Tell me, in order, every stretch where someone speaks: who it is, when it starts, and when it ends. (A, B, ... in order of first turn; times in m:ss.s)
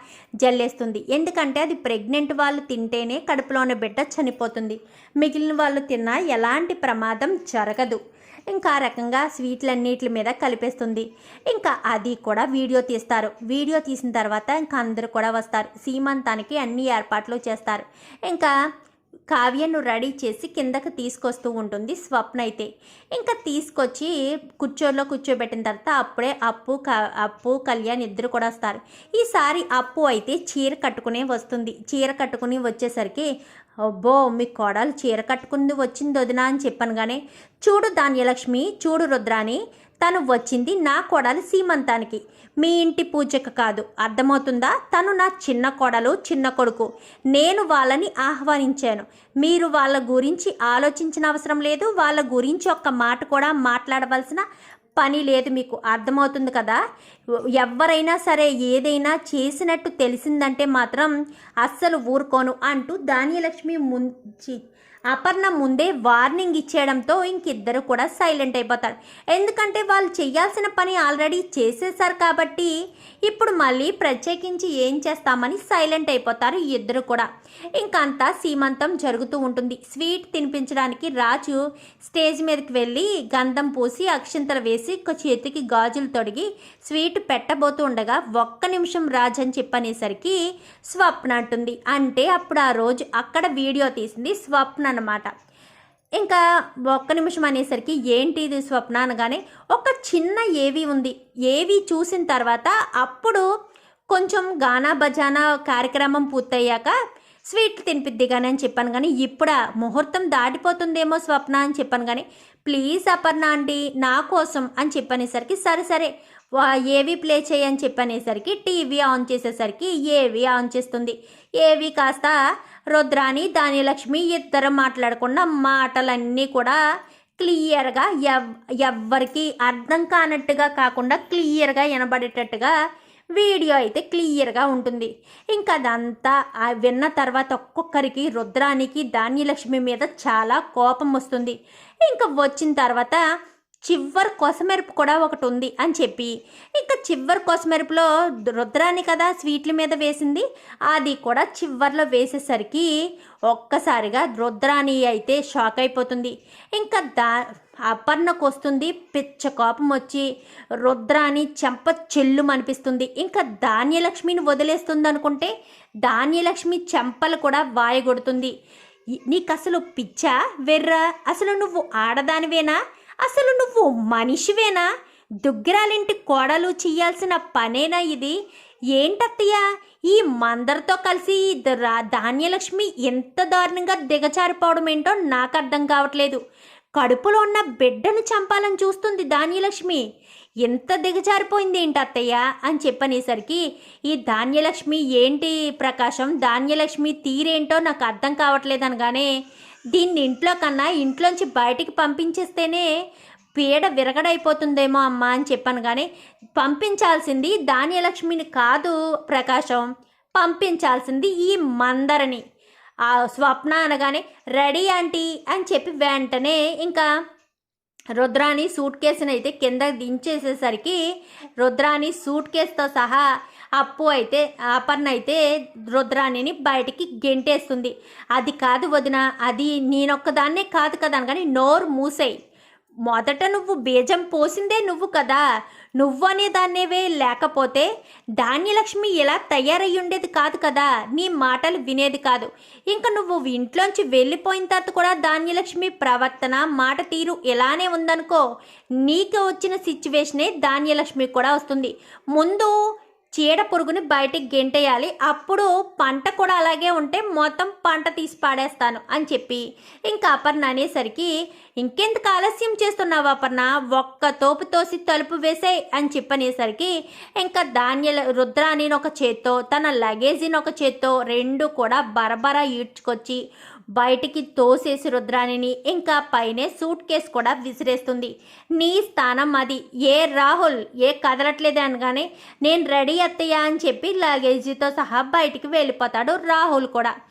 0:00.4-0:08.0 A
0:08.5-0:18.5 A
0:19.3-0:33.3 A
0:33.9-0:54.4 A
0:55.0-0:56.8 A
0:57.6-1:01.1 A
1:01.6-1:04.6 A
1:05.1-1:12.7 A
1:13.3-1:17.2 A
1:17.8-1:30.4 A
1:30.9-1:35.3 A
1:36.2-1:43.4 A
1:44.1-1:46.9 A
1:47.5-2:02.4 A
2:02.9-2:06.8 A
2:07.4-2:12.7 A
2:13.4-2:21.5 A
2:22.1-2:23.2 A
2:23.9-2:32.9 A
2:33.5-2:37.3 A
2:37.9-2:40.3 A
2:40.8-2:45.5 A
2:46.0-2:48.5 A
2:49.3-2:54.8 A
2:55.4-2:58.4 A
2:59.0-2:59.6 A
3:00.1-3:06.4 A
3:07.0-3:10.0 A
3:10.6-3:19.3 A
3:19.9-3:22.9 A
3:23.6-3:26.0 A
3:26.6-3:32.4 A
3:33.1-3:37.1 A
3:38.2-3:41.0 A
3:41.6-3:43.2 A
3:43.8-3:45.4 A
3:45.9-3:52.4 A
3:53.1-3:55.4 A
3:56.0-3:57.9 A
3:58.4-4:08.4 A
4:09.0-4:12.7 A
4:13.4-4:21.3 A
4:21.8-4:33.4 A
4:34.0-4:47.1 A